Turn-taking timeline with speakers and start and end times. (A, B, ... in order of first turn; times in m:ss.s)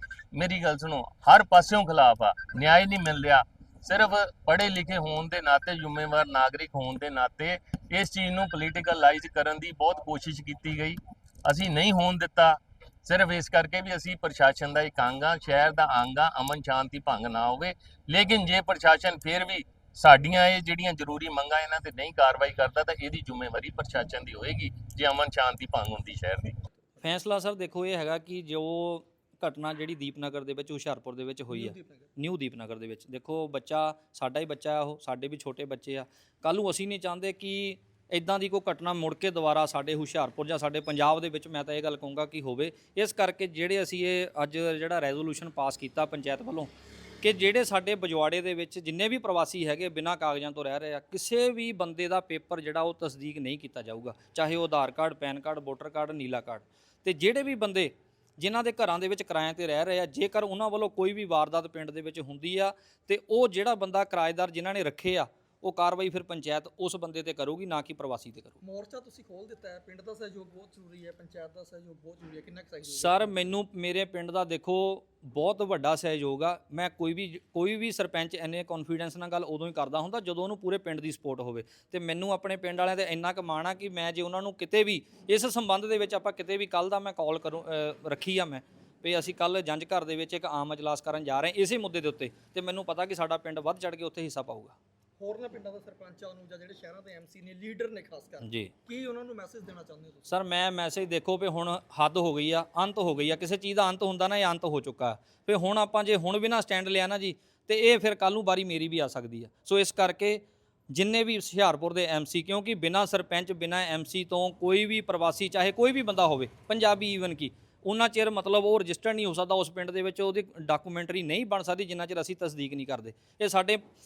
0:00.3-0:26.5 A
0:27.0-0:46.7 B
0:31.5-0:32.1 C
0:47.2-1:08.6 B
1:08.6-1:13.4 C
1:12.8-1:34.7 B
1:35.2-1:40.3 C
1:38.4-1:38.7 B
1:40.3-2:03.8 B